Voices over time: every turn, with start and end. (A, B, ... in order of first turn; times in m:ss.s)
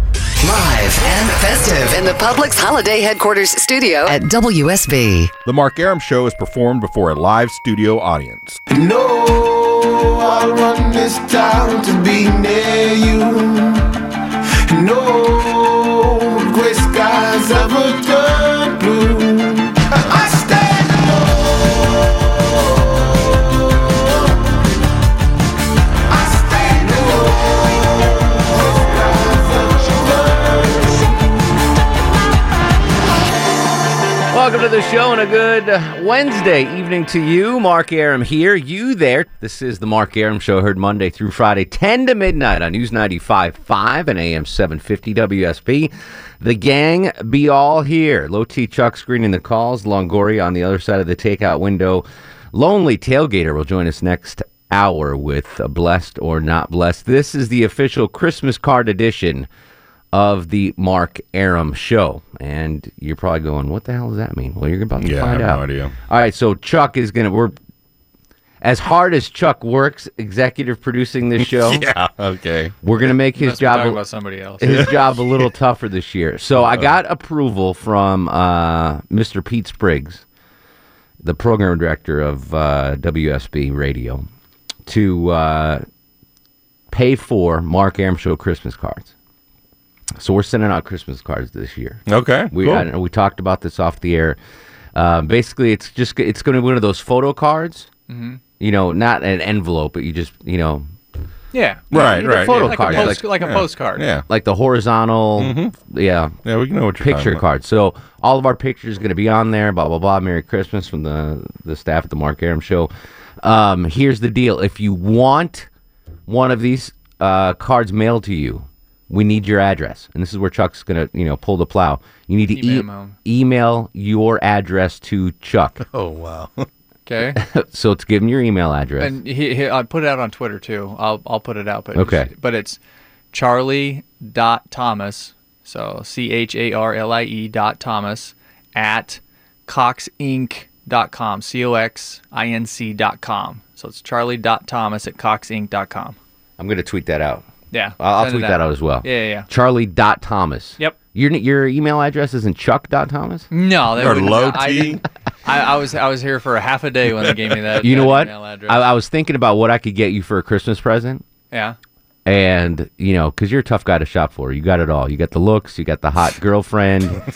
0:00.4-0:05.3 A
0:05.4-0:08.6 B
0:08.7-0:13.9 C
0:14.7-0:24.4 C
0:26.1-0:31.2 C
0:34.3-0:59.5 D
1:00.1-1:07.6 D
1:05.0-1:06.0 B
1:08.6-1:11.8 D
1:11.5-1:12.7 B
1:12.8-1:14.0 D
1:13.4-1:14.6 E
1:14.6-1:20.2 D
1:14.6-1:15.4 B
1:21.2-1:24.3 D
1:24.9-1:25.8 D
1:26.9-1:29.1 D
1:30.2-1:34.4 D
1:32.1-1:32.9 B
1:35.0-1:37.9 D
1:38.1-1:38.4 E
1:38.6-1:40.9 D
1:41.5-1:44.0 E
1:41.9-1:44.2 B
1:41.9-1:43.2 D
1:44.3-1:46.4 D
1:45.4-1:45.7 B
1:46.4-1:47.4 B
1:47.0-1:52.9 D
1:53.4-1:55.7 D
1:56.3-2:05.8 D
2:02.5-2:03.2 E
2:05.9-2:06.7 B
2:07.1-2:07.4 E
2:07.4-2:09.2 D
2:09.0-2:12.8 E
2:11.9-2:12.3 D
2:13.3-2:26.2 E
2:26.6-2:27.4 D
2:27.7-2:29.5 E
2:28.0-2:33.5 D
2:33.5-2:38.9 E
2:34.0-2:35.0 B
2:37.8-2:41.2 D
2:41.5-2:41.8 E
2:42.3-2:47.2 D